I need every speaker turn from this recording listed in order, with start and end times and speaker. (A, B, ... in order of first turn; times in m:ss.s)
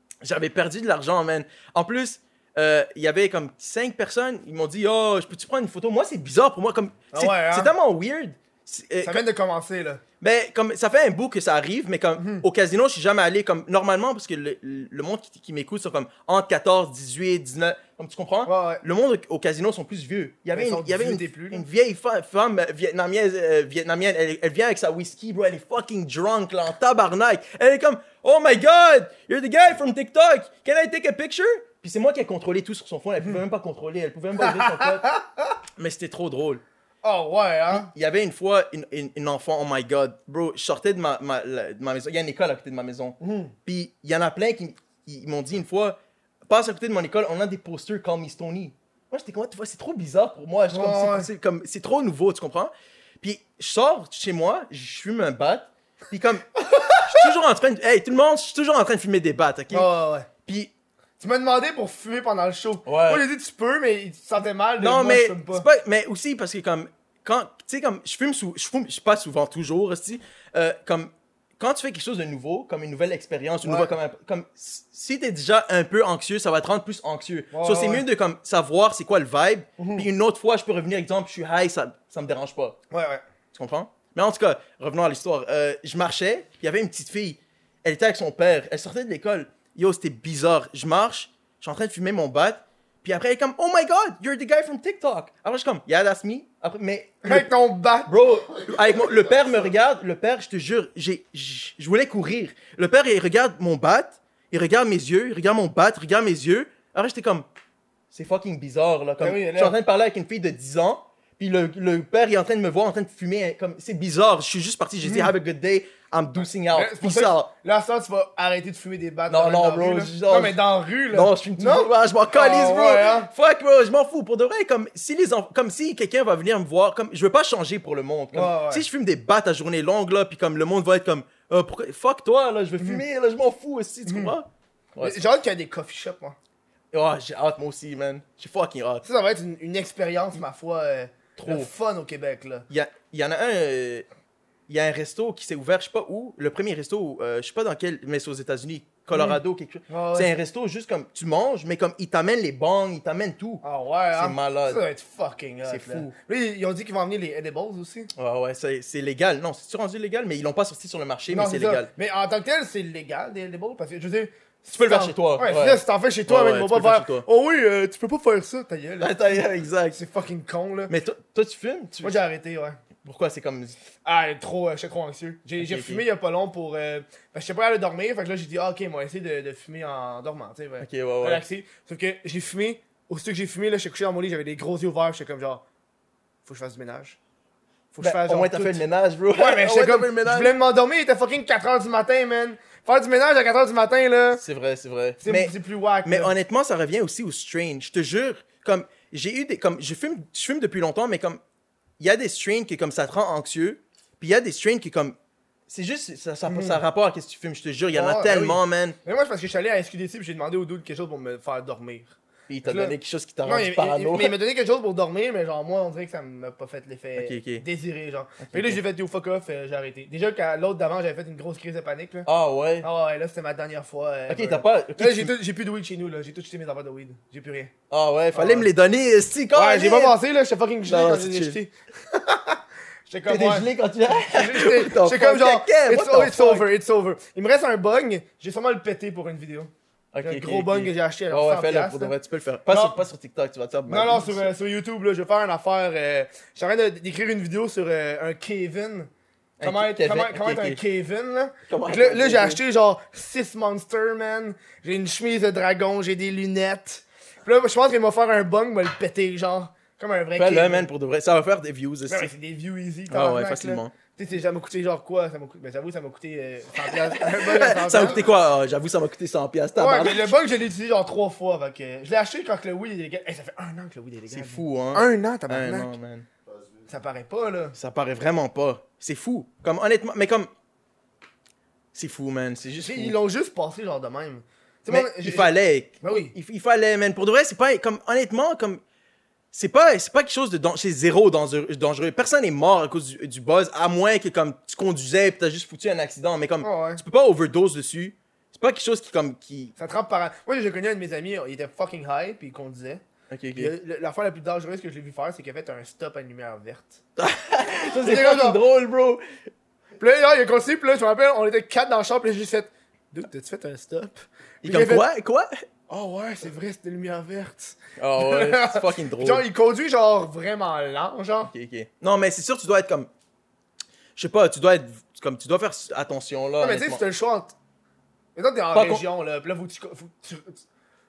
0:00.2-0:09.2 A
0:07.1-0:07.7 B
0:09.0-0:10.0 B
0:10.2-0:35.0 A
0:12.2-0:12.4 B
0:18.4-0:18.8 B
0:20.5-0:21.6 B
0:34.4-0:35.6 B
0:35.8-0:36.6 A
0:37.0-0:37.9 B
0:37.7-0:59.9 A
0:43.2-0:43.5 B
0:50.7-0:51.3 B
0:56.8-0:57.2 B
0:59.7-1:00.3 B
1:00.4-1:00.7 A
1:01.2-1:05.6 B
1:02.8-1:03.2 A
1:04.8-1:22.8 A
1:13.6-1:13.9 B
1:17.5-1:18.0 B
1:19.8-1:20.1 B
1:22.9-1:23.2 B
1:23.5-1:37.5 A
1:37.2-1:38.1 B
1:38.1-1:47.5 A
1:48.1-1:57.5 A
1:49.2-1:49.7 B
1:55.0-1:55.3 B
1:56.7-2:03.3 B
1:59.3-2:00.6 A
2:01.1-2:15.2 A
2:08.3-2:08.8 B
2:14.1-2:14.3 B
2:15.0-2:16.4 B
2:16.9-2:19.0 A
2:19.0-2:22.6 B
2:21.4-2:21.7 A
2:22.7-2:24.1 A
2:24.7-2:33.6 A
2:29.1-2:30.3 B
2:33.6-2:38.1 B
2:34.1-2:34.8 A
2:35.6-2:36.1 A
2:38.2-2:41.9 A
2:41.3-2:49.4 B
2:44.7-2:47.2 A
2:49.0-2:50.0 A
2:49.9-2:50.9 B
2:50.9-2:52.2 A
2:52.0-2:52.8 B
2:53.0-2:53.8 A
2:54.0-3:05.6 B
2:55.6-2:56.0 A
3:00.8-3:01.4 A
3:06.4-3:07.2 B
3:07.9-3:08.8 B
3:08.0-3:10.5 A
3:09.4-3:14.4 B
3:14.3-3:21.4 A
3:15.2-3:16.3 B
3:22.0-3:25.2 A
3:25.7-3:29.0 A
3:26.5-3:26.8 B
3:27.9-3:32.1 B
3:32.5-3:34.4 A
3:32.6-3:42.3 B
3:37.2-3:37.6 A
3:38.4-3:38.8 A
3:42.2-3:42.9 A
3:42.8-3:47.7 B
3:44.3-3:45.3 A
3:47.9-3:50.2 A
3:48.3-3:48.7 B
3:49.5-4:02.1 B
3:50.9-3:51.6 A
3:53.2-3:56.7 A
4:00.1-4:04.5 A
4:02.7-4:03.0 B
4:03.9-4:09.1 B
4:09.6-4:10.8 A
4:09.6-4:20.9 B
4:11.7-4:12.6 A
4:20.4-4:22.3 A
4:22.1-4:28.2 B
4:23.1-4:23.9 A
4:26.9-4:30.3 A
4:29.8-4:35.9 B
4:34.3-4:36.3 A
4:36.9-4:37.8 B
4:37.7-4:40.5 A
4:41.9-4:43.1 A
4:42.8-4:46.3 B
4:44.9-4:48.8 A
4:49.5-4:59.7 A
4:56.6-4:57.0 B
4:59.8-5:03.0 B
5:03.3-5:03.7 A
5:03.5-5:07.0 B
5:07.2-5:09.2 A
5:08.0-5:08.6 B
5:10.0-5:15.0 B
5:14.6-5:15.6 A
5:15.9-5:21.5 B
5:18.0-5:19.5 A
5:21.4-5:23.1 A
5:24.2-5:27.0 A
5:26.6-5:27.5 B
5:28.4-5:30.6 B
5:28.7-5:29.0 A